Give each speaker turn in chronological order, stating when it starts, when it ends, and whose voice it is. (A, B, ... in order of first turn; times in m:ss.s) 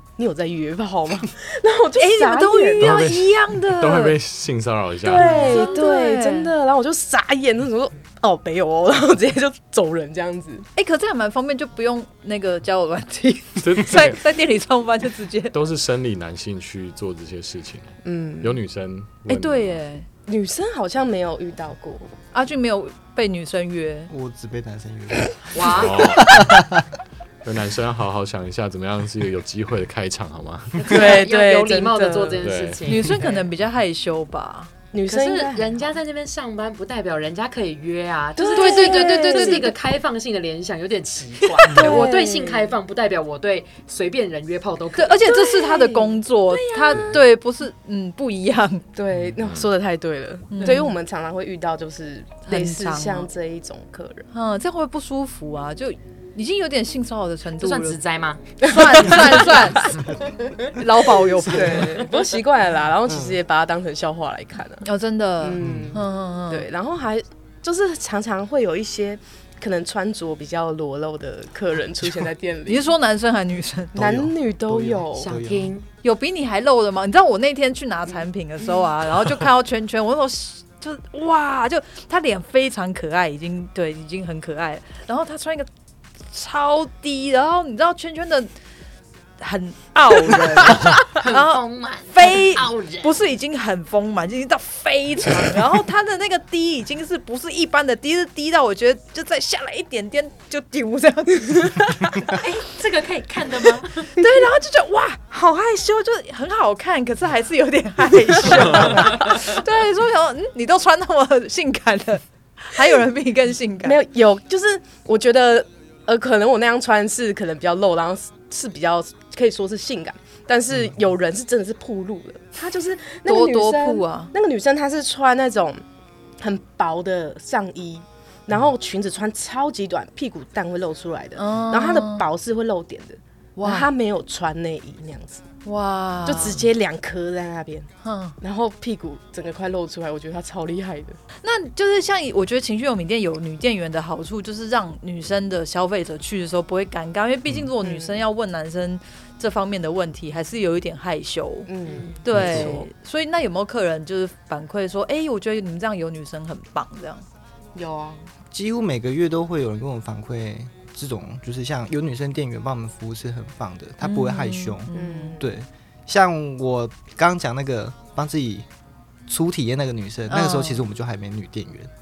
0:00.2-0:03.0 A
0:02.0-0:04.2 B
0:02.8-0:05.3 C
0:05.0-0:10.7 A
0:05.1-0:06.5 B
0:05.2-0:05.8 D
0:10.8-0:15.6 B
0:13.6-0:14.2 C
0:15.5-0:19.8 C
0:18.0-0:18.6 A
0:19.3-0:20.1 B
0:20.3-0:22.1 A
0:22.3-0:24.1 B
0:24.1-0:26.9 E
0:25.5-0:26.2 D
0:25.7-0:26.5 C
0:27.4-0:31.0 C
0:30.8-0:33.3 D
0:30.9-0:32.4 A
0:32.4-0:32.8 C
0:32.9-0:34.7 B
0:34.9-0:35.9 A
0:35.1-0:45.5 D
0:38.4-0:39.7 A
0:38.5-0:39.7 B
0:41.7-0:42.8 A
0:41.7-0:42.0 B
0:45.0-0:48.8 B
0:45.3-0:47.2 A
0:49.0-0:54.3 A
0:49.4-0:49.7 C
0:50.5-0:51.0 B
0:52.5-0:53.3 B
0:54.3-0:58.0 B
0:57.6-0:59.9 D
0:58.6-1:00.0 B
0:58.7-0:59.5 A
1:00.7-1:02.1 B
1:01.5-1:04.8 A
1:03.1-1:03.4 E
1:04.8-1:06.7 B
1:05.4-1:12.9 A
1:05.6-1:06.0 E
1:12.7-1:14.0 B
1:14.0-1:15.3 A
1:14.0-1:15.8 E
1:15.2-1:15.9 D
1:16.0-1:25.7 B
1:26.3-1:28.5 B
1:29.4-1:42.5 B
1:30.7-1:33.2 D
1:42.2-1:44.1 D
1:43.5-1:54.0 B
1:53.8-2:05.8 A
2:03.3-2:04.3 B
2:06.4-2:15.4 A
2:11.4-2:12.2 B
2:13.6-2:13.9 B
2:15.6-2:16.6 B
2:16.2-2:17.9 A
2:18.0-2:18.4 B
2:18.4-2:21.2 A
2:21.4-2:31.7 B
2:27.8-2:28.2 A
2:31.7-2:32.9 A
2:32.2-2:37.2 B
2:32.3-2:32.8 E
2:37.8-2:38.3 A
2:38.5-2:48.7 E
2:44.0-2:45.4 B
2:44.9-2:45.5 A
2:49.3-2:51.9 E
2:50.3-2:50.8 B